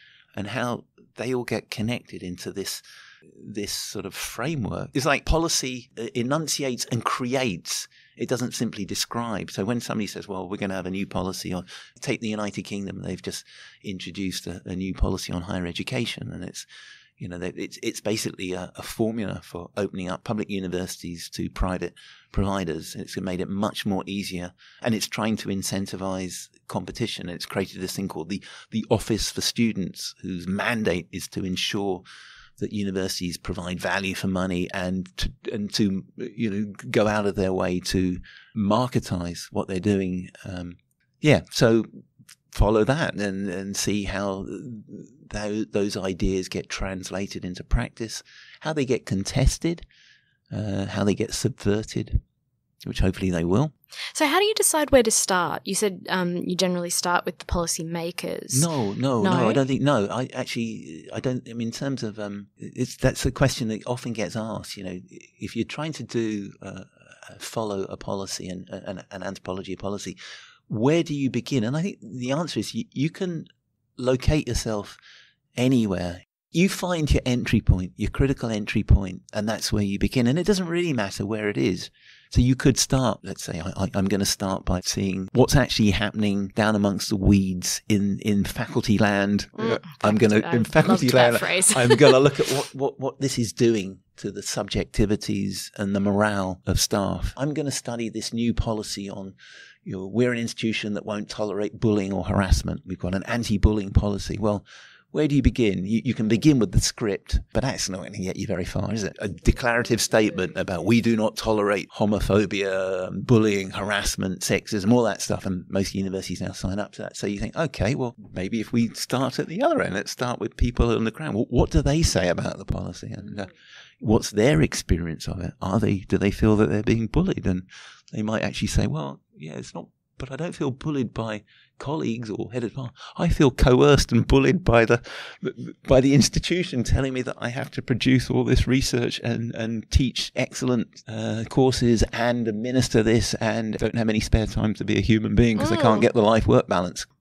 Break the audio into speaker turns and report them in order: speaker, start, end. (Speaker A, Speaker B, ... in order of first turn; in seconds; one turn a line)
Speaker A: 0.3-16.7
Speaker A: 17.2-32.0
Speaker A: 32.6-49.9
Speaker A: 50.5-52.2
Speaker A: 52.8-53.7
Speaker B: 54.1-58.7
Speaker A: 58.5-75.0
Speaker B: 59.2-59.6
Speaker A: 75.6-123.5
Speaker B: 89.6-92.2
Speaker A: 124.0-147.1
Speaker B: 145.6-146.1